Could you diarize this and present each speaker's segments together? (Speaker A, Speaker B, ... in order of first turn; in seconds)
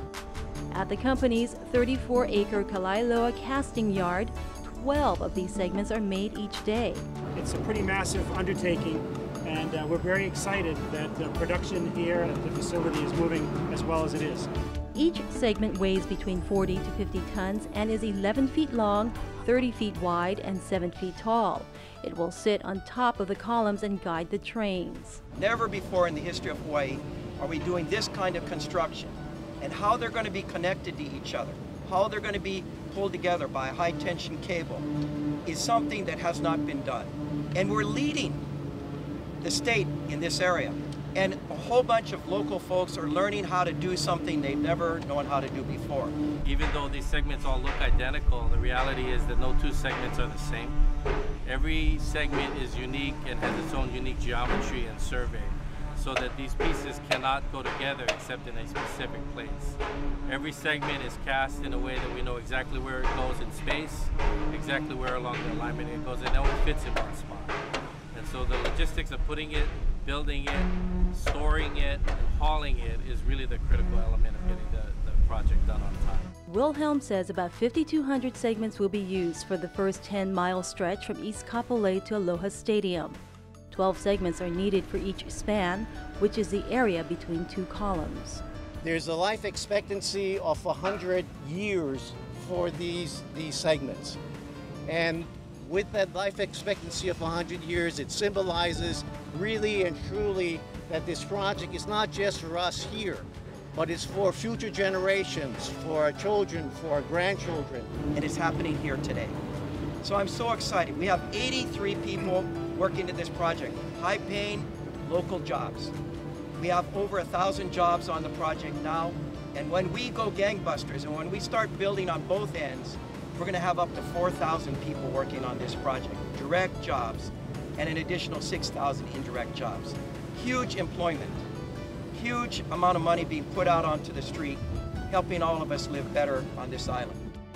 Speaker A: 0.7-7.0, 14.9-25.2, 76.5-83.2, 83.7-88.4
Speaker B: 7.3-14.5
Speaker C: 25.4-34.9, 35.5-38.4, 39.4-46.1, 108.1-109.4, 110.0-115.9, 116.6-131.4, 132.1-137.2
Speaker D: 46.4-50.8, 51.5-67.6, 68.1-76.3
Speaker E: 88.8-94.2, 94.9-107.9